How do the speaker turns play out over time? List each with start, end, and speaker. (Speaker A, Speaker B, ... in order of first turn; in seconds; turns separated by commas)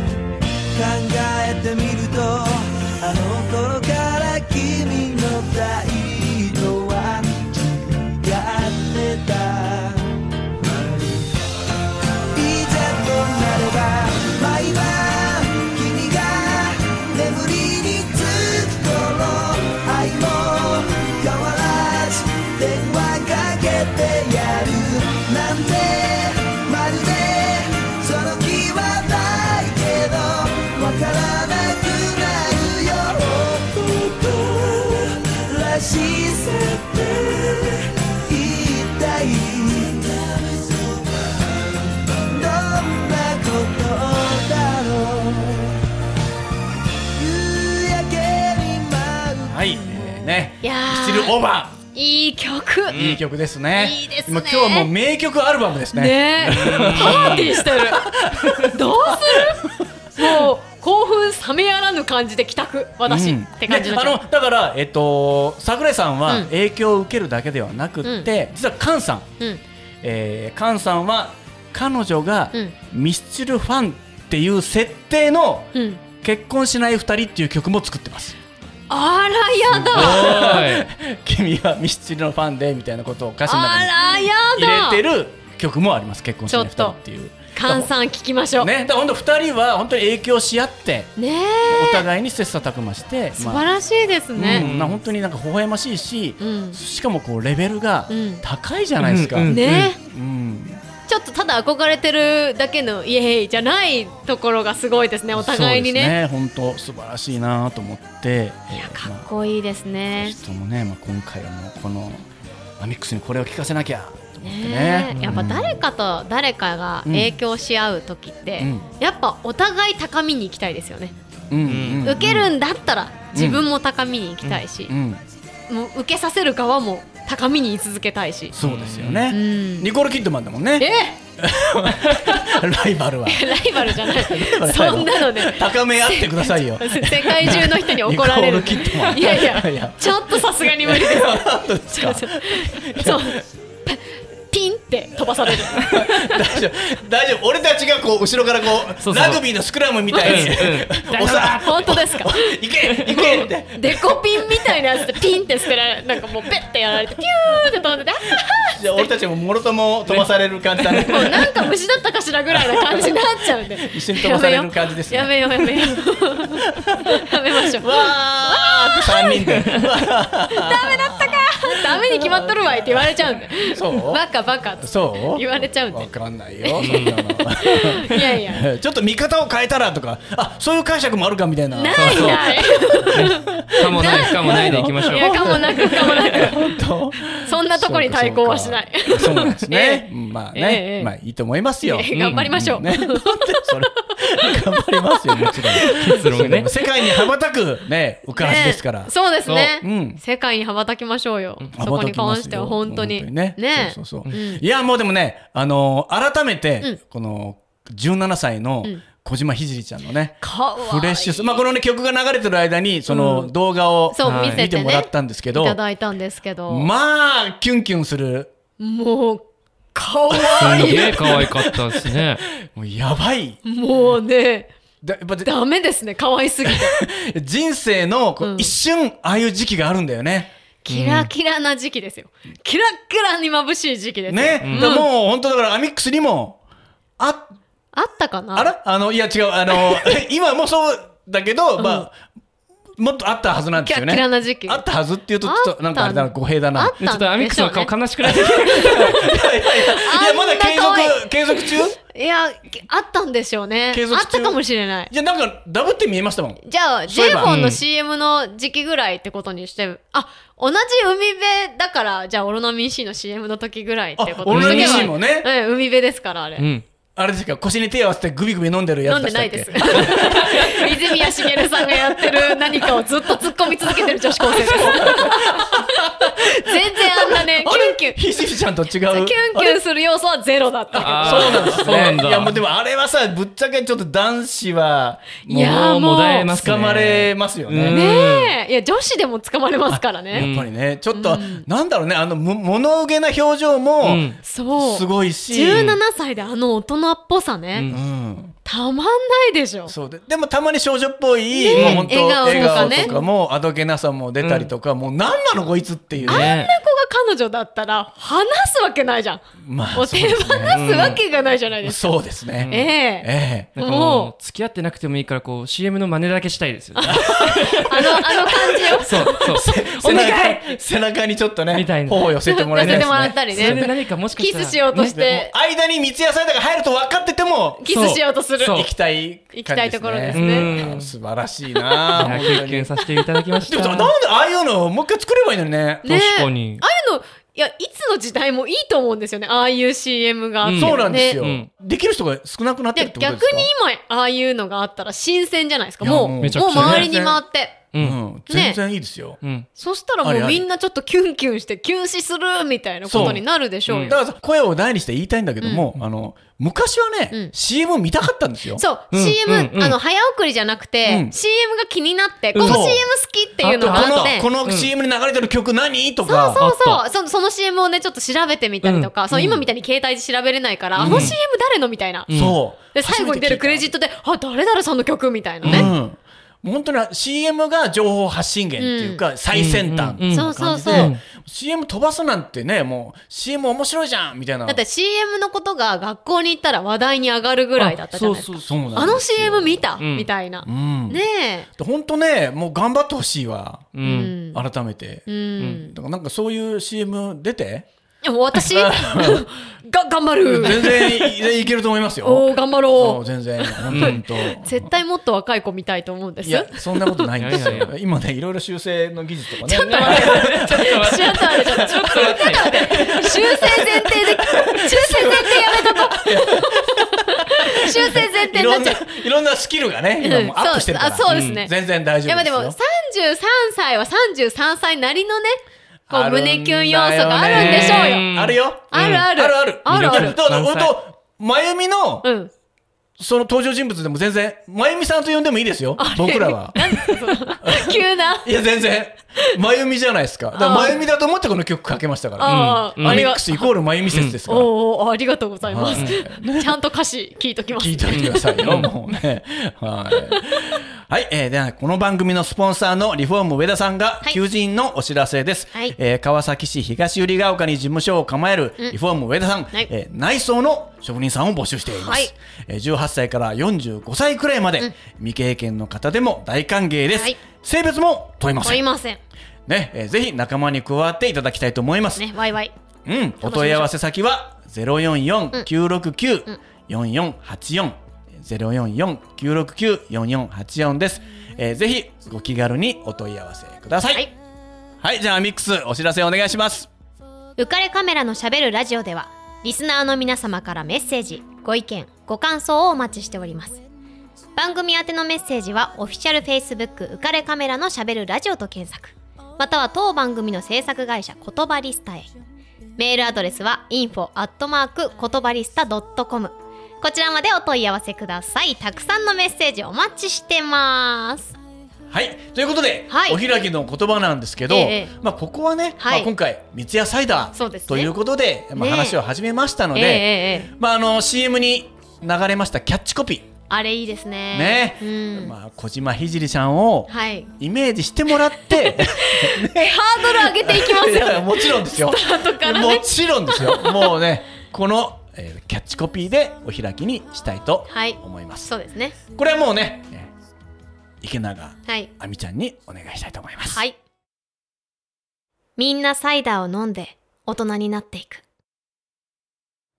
Speaker A: 0.7-11.3, Speaker A: 12.3-45.8, Speaker A: 47.1-50.4, Speaker B: 49.5-51.8, Speaker C: 50.6-51.4, Speaker C: 51.9-53.1, Speaker B: 52.9-60.5, Speaker D: 52.9-53.2, Speaker C: 53.7-54.9, Speaker C: 55.9-58.1, Speaker D: 56.4-57.6, Speaker C: 58.6-64.2, Speaker B: 63.0-69.3, Speaker C: 68.0-68.3, Speaker B: 70.0-78.3, Speaker C: 75.7-76.0, Speaker C: 78.9-80.6, Speaker B: 79.7-87.9, Speaker D: 79.8-80.9, Speaker C: 83.5-85.0, Speaker C: 86.5-88.7, Speaker B: 88.6-91.2, Speaker C: 91.2-92.0, Speaker B: 91.7-93.7, Speaker C: 93.3-94.7, Speaker B: 94.3-100.8, Speaker D: 94.4-95.0, Speaker C: 96.4-96.8, Speaker C: 98.1-98.4, Speaker D: 99.0-99.9, Speaker C: 99.5-100.0, Speaker C: 101.1-106.1, Speaker B: 105.3-109.3, Speaker C: 108.7-110.3, Speaker B: 110.2-112.3, Speaker B: 112.8-115.8, Speaker C: 114.4-121.1, Speaker D: 115.1-115.5, Speaker B: 117.0-117.3, Speaker B: 118.6-118.9, Speaker B: 121.5-122.5, Speaker D: 121.7-122.2, Speaker C: 122.0-124.9, Speaker B: 123.3-123.7, Speaker B: 124.9-125.2, Speaker C: 125.7-128.5, Speaker B: 128.5-143.4, Speaker D: 128.6-129.3, Speaker C: 129.3-129.9, Speaker C: 130.8-131.2, Speaker C: 132.1-132.6, Speaker C: 133.2-146.5, Speaker B: 145.5-155.4, Speaker D: 149.0-149.4, Speaker C: 150.1-150.5, Speaker D: 150.2-152.0, Speaker C: 151.6-152.6, Speaker C: 153.1-159.1, Speaker B: 158.7-161.7, Speaker C: 161.0-169.7, Speaker B: 162.5-174.2, Speaker C: 170.5-176.1, Speaker B: 174.8-200.2, Speaker C: 176.6-178.7, Speaker D: 176.8-177.2, Speaker C: 181.7-186.7, Speaker D: 181.9-186.5, Speaker C: 187.3-191.1, Speaker C: 191.8-197.3, Speaker D: 192.1-192.8, Speaker D: 195.4-196.7, Speaker C: 198.3-204.6, Speaker D: 199.4-199.7, Speaker B: 201.7-215.8, Speaker C: 210.4-211.7, Speaker C: 213.1-213.4, Speaker C: 214.1-216.9, Speaker D: 214.2-214.7, Speaker B: 216.7-218.5, Speaker C: 218.8-221.4, Speaker B: 220.3-223.6, Speaker D: 220.6-222.4, Speaker C: 223.6-224.7, Speaker B: 225.0-225.5, Speaker C: 225.4-227.0, Speaker B: 226.6-230.5, Speaker C: 228.4-228.7, Speaker C: 230.8-235.1, Speaker D: 230.9-231.3, Speaker B: 234.3-236.6, Speaker D: 234.6-234.9, Speaker B: 237.2-237.5, Speaker C: 237.9-238.7, Speaker B: 238.5-242.2, Speaker C: 239.8-240.1, Speaker C: 241.8-242.1, Speaker B: 243.0-246.9, Speaker C: 243.8-244.8, Speaker C: 245.4-247.9, Speaker D: 247.0-249.3, Speaker B: 248.2-252.0, Speaker C: 248.8-255.1, Speaker B: 253.9-257.6, Speaker C: 256.6-266.6, Speaker D: 257.4-257.8, Speaker B: 264.2-265.5, Speaker D: 264.5-265.1, Speaker D: 266.6-266.8, Speaker B: 267.1-272.9, Speaker C: 269.0-278.2, Speaker D: 270.1-270.7, Speaker B: 273.9-279.8, Speaker C: 279.1-282.1, Speaker B: 280.9-288.1, Speaker D: 281.0-282.6, Speaker C: 285.5-286.4, Speaker D: 285.6-288.6, Speaker C: 287.9-290.5, Speaker B: 289.9-295.9, Speaker D: 290.3-290.7, Speaker C: 291.1-291.7, Speaker D: 294.0-294.4, Speaker C: 294.4-297.9, Speaker D: 295.7-296.0, Speaker D: 297.7-298.0, Speaker B: 297.9-298.5, Speaker C: 298.6-299.9, Speaker B: 299.9-306.5, Speaker C: 301.5-303.2, Speaker D: 301.7-303.1, Speaker D: 304.4-304.7, Speaker D: 306.2-306.7, Speaker C: 306.3-309.4, Speaker B: 309.6-310.8, Speaker C: 309.9-312.1, Speaker D: 310.7-311.2, Speaker B: 311.8-313.7, Speaker D: 312.6-312.9, Speaker C: 312.7-314.3, Speaker D: 313.8-320.6, Speaker C: 316.9-320.6, Speaker B: 317.0-323.9, Speaker D: 321.7-324.8, Speaker C: 322.4-325.5, Speaker B: 324.9-327.9, Speaker C: 327.8-328.9, Speaker D: 327.9-328.9, Speaker B: 328.7-332.9, Speaker C: 329.5-330.7, Speaker D: 330.3-331.1, Speaker C: 331.8-332.5, Speaker D: 332.1-334.1, Speaker B: 333.6-336.2, Speaker C: 336.0-341.4, Speaker D: 336.1-336.8, Speaker D: 340.6-341.7, Speaker B: 340.7-343.7, Speaker C: 342.9-347.9, Speaker B: 346.0-347.4, Speaker D: 346.4-347.1, Speaker D: 347.9-348.2, Speaker B: 347.9-349.4, Speaker C: 348.4-348.8, Speaker D: 349.4-349.7, Speaker C: 349.7-354.2, Speaker B: 350.2-350.7, Speaker B: 353.0-358.8, Speaker D: 353.1-354.1, Speaker C: 355.6-355.9, Speaker C: 358.7-364.5, Speaker D: 359.1-360.0, Speaker B: 361.0-361.4, Speaker D: 362.5-363.0, Speaker B: 362.6-363.0, Speaker D: 363.6-364.9, Speaker B: 363.8-366.6, Speaker C: 366.2-372.3, Speaker D: 366.6-367.0, Speaker D: 368.8-369.6, Speaker B: 371.0-371.4, Speaker D: 371.0-371.4, Speaker D: 372.3-372.6, Speaker B: 372.3-373.9, Speaker C: 372.8-375.9, Speaker D: 375.6-375.9, Speaker B: 375.6-384.8, Speaker C: 378.8-379.2, Speaker D: 379.5-381.2, Speaker C: 380.2-381.1, Speaker C: 384.6-391.7, Speaker D: 387.8-389.0, Speaker B: 388.6-389.9, Speaker D: 390.0-390.3, Speaker B: 390.6-391.2, Speaker B: 391.8-397.9, Speaker D: 393.9-394.3, Speaker C: 394.0-394.6, Speaker C: 395.2-395.9, Speaker C: 398.2-401.4, Speaker B: 398.5-399.4, Speaker B: 400.4-404.9, Speaker C: 402.2-407.8, Speaker D: 403.9-404.2, Speaker B: 406.4-422.8, Speaker D: 407.4-407.9, Speaker C: 409.6-419.1, Speaker D: 409.8-413.7, Speaker C: 420.2-421.7, Speaker D: 421.3-421.6, Speaker C: 422.2-425.6, Speaker B: 426.1-432.3, Speaker C: 426.1-428.3, Speaker D: 427.4-429.3, Speaker C: 428.9-430.4, Speaker D: 429.8-430.9, Speaker C: 432.2-432.5, Speaker B: 433.2-436.8, Speaker C: 436.0-438.5, Speaker B: 437.6-444.7, Speaker C: 440.5-441.0, Speaker C: 442.4-443.8, Speaker D: 442.4-443.3, Speaker D: 444.1-444.4, Speaker C: 444.4-448.7, Speaker B: 445.6-446.7, Speaker B: 447.8-468.8, Speaker D: 448.1-448.9, Speaker C: 461.9-462.3, Speaker C: 467.1-467.4, Speaker C: 468.6-469.2, Speaker B: 469.7-472.3, Speaker C: 472.1-472.7, Speaker B: 473.1-484.3, Speaker C: 473.4-473.9, Speaker B: 485.0-486.9, Speaker C: 487.6-493.8, Speaker C: 494.6-502.3, Speaker C: 503.0-511.5, Speaker B: 512.1-523.5, Speaker C: 513.1-513.4, Speaker C: 514.7-515.1, Speaker C: 516.0-516.3, Speaker C: 517.5-518.1, Speaker C: 518.7-519.2, Speaker C: 519.9-520.7, Speaker C: 523.7-525.5, Speaker B: 524.5-538.7, Speaker C: 527.1-527.5, Speaker C: 528.8-534.1, Speaker C: 537.9-539.2, Speaker B: 539.3-540.3, Speaker B: 541.2-543.8, Speaker C: 541.9-542.1, Speaker C: 543.6-544.0, Speaker C: 545.8-548.4